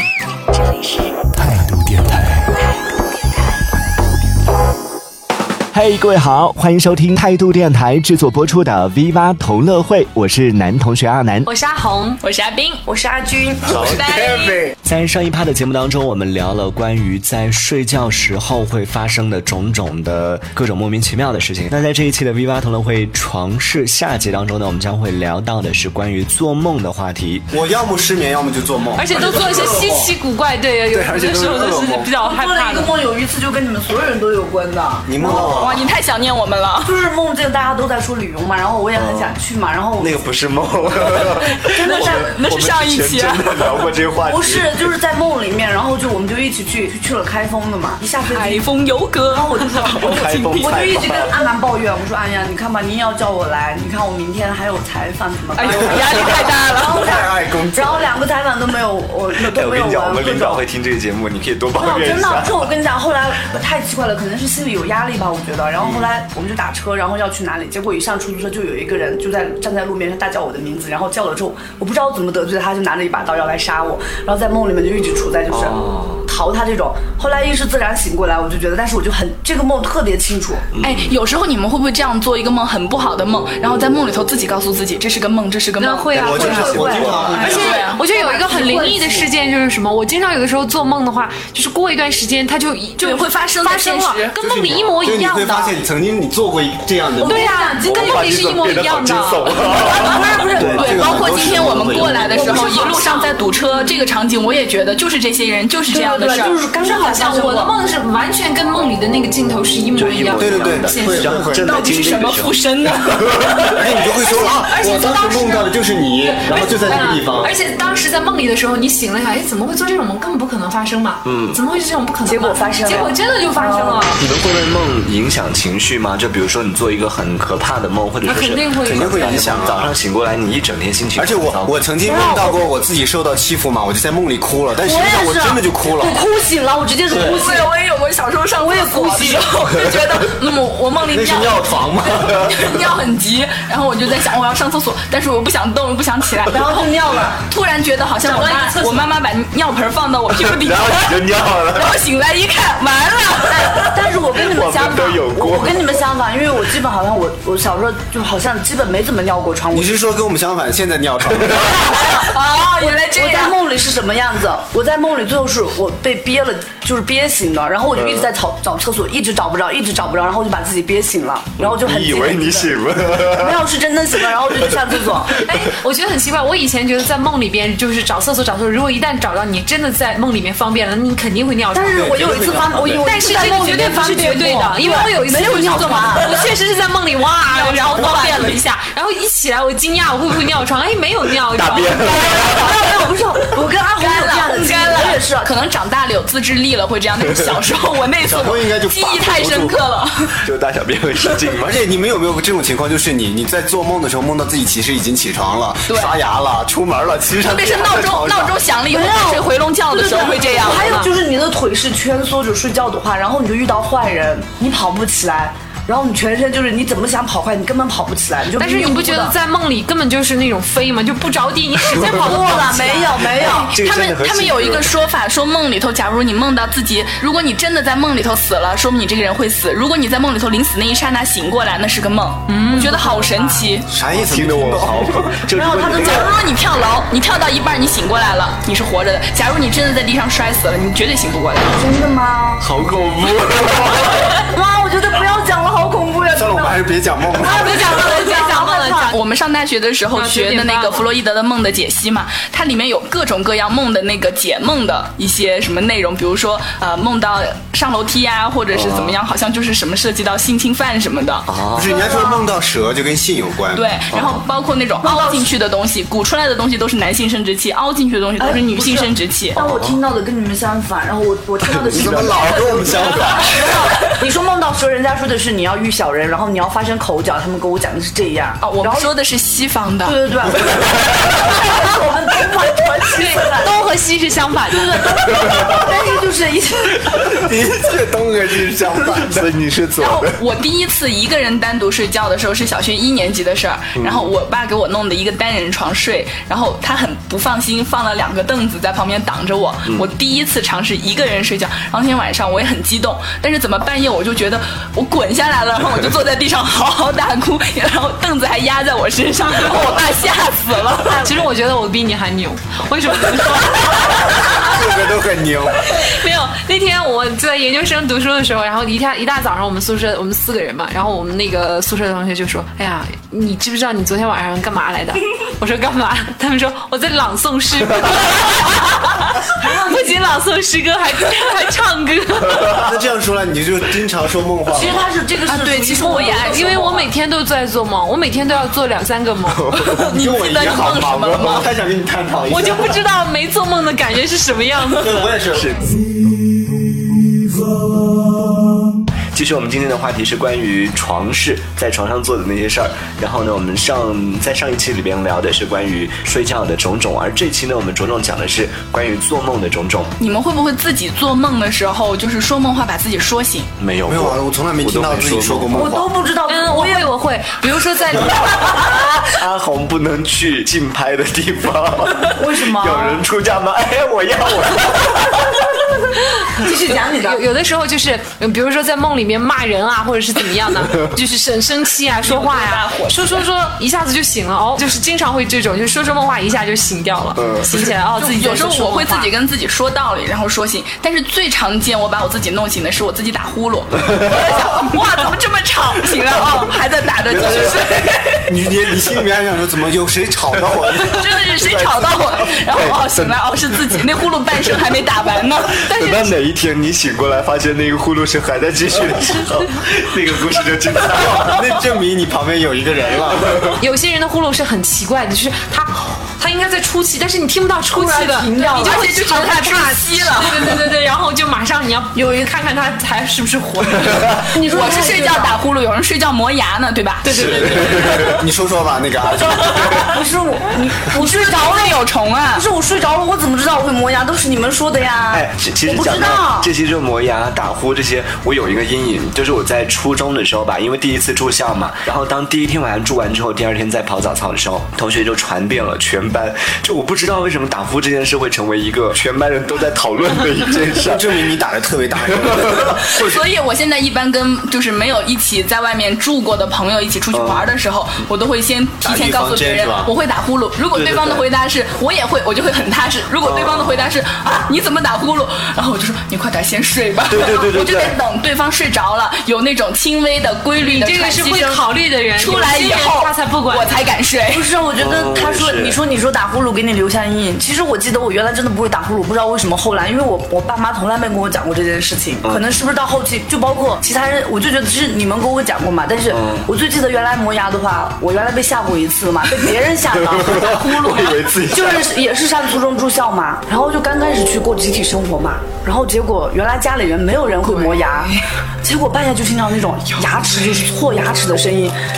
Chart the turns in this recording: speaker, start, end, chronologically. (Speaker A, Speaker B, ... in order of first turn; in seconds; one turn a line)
Speaker A: 5.7-11.5
Speaker B: 11.4-12.2
Speaker C: 12.2-12.8
Speaker D: 12.8-13.9
Speaker C: 13.7-14.6
Speaker E: 13.9-14.7
Speaker A: 14.5-27.4
Speaker E: 27.5-30.1
Speaker B: 29.0-32.9
Speaker E: 30.9-32.1
Speaker D: 32.2-35.8
Speaker E: 35.0-35.9
Speaker C: 35.3-36.9
Speaker D: 36.8-40.2
Speaker A: 38.9-39.4
Speaker A: 40.0-44.9
Speaker C: 41.6-43.8
Speaker D: 41.6-42.3
Speaker D: 44.2-48.7
Speaker C: 48.3-50.8
Speaker D: 49.3-60.6
Speaker A: 49.9-51.4
Speaker C: 55.5-57.1
Speaker E: 55.7-56.5
Speaker E: 57.1-58.2
Speaker A: 59.3-62.7
Speaker D: 61.7-80.7
Speaker A: 65.8-66.1
Speaker A: 75.5-76.3
Speaker A: 80.7-81.1
Speaker C: 80.8-86.2
Speaker B: 85.8-95.8
Speaker E: 86.1-87.8
Speaker D: 86.1-89.3
Speaker A: 86.5-87.5
Speaker C: 87.4-88.0
Speaker C: 93.0-94.3
Speaker E: 94.4-97.5
Speaker D: 97.2-98.0
Speaker B: 97.2-99.7
Speaker A: 97.8-101.1
Speaker D: 99.7-101.4
Speaker C: 99.9-106.6
Speaker E: 100.6-102.8
Speaker A: 101.8-102.3
Speaker B: 102.3-103.3
Speaker D: 102.4-103.0
Speaker D: 105.9-107.7
Speaker B: 106.7-111.4
Speaker C: 107.1-107.7
Speaker A: 109.9-112.6
Speaker E: 110.4-111.7
Speaker C: 111.6-113.5
Speaker E: 113.7-117.5
Speaker B: 114.1-124.2
Speaker A: 121.2-121.6
Speaker D: 122.2-124.1
Speaker A: 124.2-131.8
Speaker B: 128.2-129.4
Speaker E: 128.8-129.9
Speaker E: 131.2-136.2
Speaker D: 132.0-132.6
Speaker D: 134.8-137.7
Speaker E: 137.1-137.4
Speaker C: 137.2-146.9
Speaker D: 138.6-139.5
Speaker E: 141.0-142.8
Speaker D: 146.4-147.4
Speaker C: 147.5-153.9
Speaker B: 148.2-149.0
Speaker A: 150.3-152.0
Speaker D: 153.5-160.0
Speaker A: 154.3-156.0
Speaker E: 159.7-161.7
Speaker A: 161.3-161.7
Speaker D: 161.6-162.2
Speaker C: 161.9-163.5
Speaker D: 162.8-175.4
Speaker A: 167.9-168.3
Speaker A: 171.6-173.7
Speaker A: 174.3-174.8
Speaker B: 175.4-182.1
Speaker D: 181.7-186.4
Speaker E: 181.9-183.0
Speaker B: 183.0-192.0
Speaker C: 187.5-188.7
Speaker A: 191.5-192.8
Speaker D: 192.0-195.5
Speaker C: 194.0-200.3
Speaker E: 198.2-199.8
Speaker A: 200.4-201.8
Speaker E: 201.6-208.6
Speaker C: 205.9-206.2
Speaker C: 207.4-210.9
Speaker D: 208.9-219.3
Speaker B: 210.7-211.1
Speaker B: 218.6-223.3
Speaker D: 221.9-223.8
Speaker A: 223.3-224.9
Speaker C: 223.4-233.9
Speaker B: 232.5-233.4
Speaker E: 233.9-235.3
Speaker A: 234.1-236.3
Speaker D: 235.5-236.4
Speaker C: 235.9-241.8
Speaker D: 241.7-242.7
Speaker A: 242.6-244.4
Speaker D: 244.4-246.9
Speaker E: 246.3-247.9
Speaker B: 247.4-249.2
Speaker D: 247.4-248.8
Speaker C: 247.7-261.5
Speaker B: 250.1-251.1
Speaker A: 258.7-259.2
Speaker A: 261.5-261.9
Speaker E: 261.7-263.9
Speaker D: 261.8-262.5
Speaker C: 263.7-269.6
Speaker A: 264.1-264.4
Speaker D: 265.0-265.5
Speaker D: 268.4-279.1
Speaker A: 269.6-270.0
Speaker A: 271.6-273.1
Speaker E: 271.9-273.5
Speaker C: 278.6-280.2
Speaker D: 280.0-283.7
Speaker B: 283.1-285.1
Speaker D: 284.7-287.4
Speaker E: 287.4-289.5
Speaker A: 287.5-290.4
Speaker C: 290.0-311.3
Speaker A: 294.0-294.3
Speaker B: 311.1-314.8
Speaker E: 314.6-315.8
Speaker B: 315.9-332.9
Speaker D: 329.6-329.9
Speaker E: 332.7-335.1
Speaker D: 334.7-336.7
Speaker C: 335.4-337.1
Speaker B: 336.1-339.6
Speaker A: 339.5-340.0
Speaker C: 339.7-341.7
Speaker E: 340.1-343.0
Speaker B: 342.5-345.2
Speaker E: 345.0-345.7
Speaker A: 345.0-345.9
Speaker A: 349.3-360.1
Speaker C: 360.2-363.7
Speaker A: 363.8-365.9
Speaker E: 364.1-366.1
Speaker D: 365.8-367.1
Speaker B: 366.5-368.7
Speaker A: 368.9-375.7
Speaker D: 372.3-373.2
Speaker D: 376.6-377.4
Speaker B: 377.2-389.3
Speaker C: 382.2-383.4
Speaker A: 387.4-387.9
Speaker C: 388.1-398.5
Speaker E: 397.3-397.7
Speaker A: 397.3-397.8
Speaker E: 398.4-401.0
Speaker A: 400.5-402.5
Speaker C: 401.1-405.8
Speaker A: 403.1-403.3
Speaker A: 405.8-411.7
Speaker B: 405.9-406.3
Speaker E: 411.5-413.6
Speaker B: 413.8-424.5
Speaker D: 417.9-419.1
Speaker C: 418.6-420.8
Speaker D: 424.5-425.6
Speaker C: 424.7-427.3
Speaker B: 427.2-428.4
Speaker A: 427.3-428.4
Speaker E: 427.4-430.0
Speaker D: 429.6-436.7
Speaker C: 431.1-432.6
Speaker A: 435.3-451.6
Speaker E: 451.0-453.1
Speaker C: 453.1-474.7
Speaker A: 457.3-457.7
Speaker E: 459.0-460.1
Speaker A: 460.9-461.4
Speaker A: 463.4-464.1
Speaker A: 467.3-468.2
Speaker B: 470.8-473.9
Speaker D: 474.5-501.9
Speaker A: 474.9-476.0
Speaker A: 486.3-486.7
Speaker A: 490.1-492.1